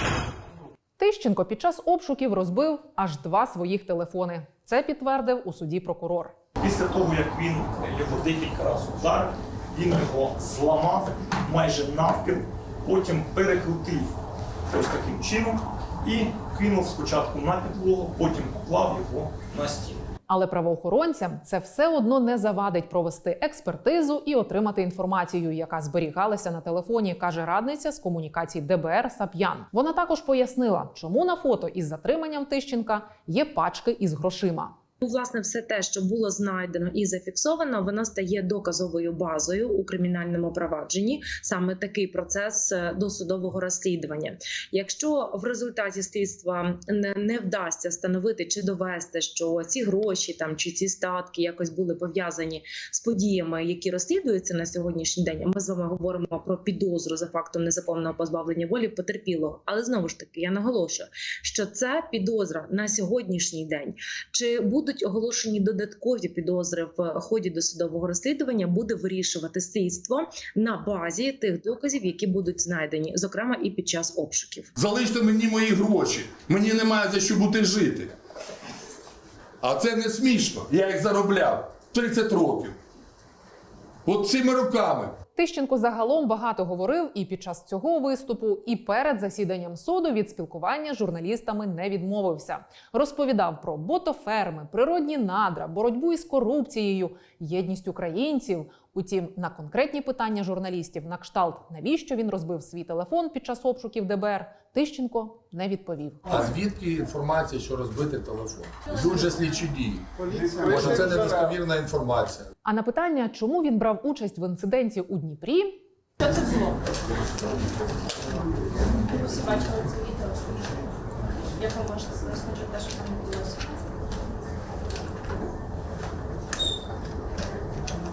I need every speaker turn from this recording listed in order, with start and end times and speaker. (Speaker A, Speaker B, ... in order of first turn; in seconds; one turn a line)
Speaker A: 1.0-6.3
Speaker B: 6.6-14.1
Speaker B: 14.7-20.0
Speaker A: 20.3-34.8
Speaker C: 35.0-74.7
Speaker D: 74.8-78.1
Speaker D: 79.6-82.8
Speaker D: 84.0-85.1
Speaker A: 85.3-106.2
Speaker D: 106.3-112.5
Speaker A: 112.6-115.8
Speaker E: 119.2-120.4
Speaker E: 121.6-123.8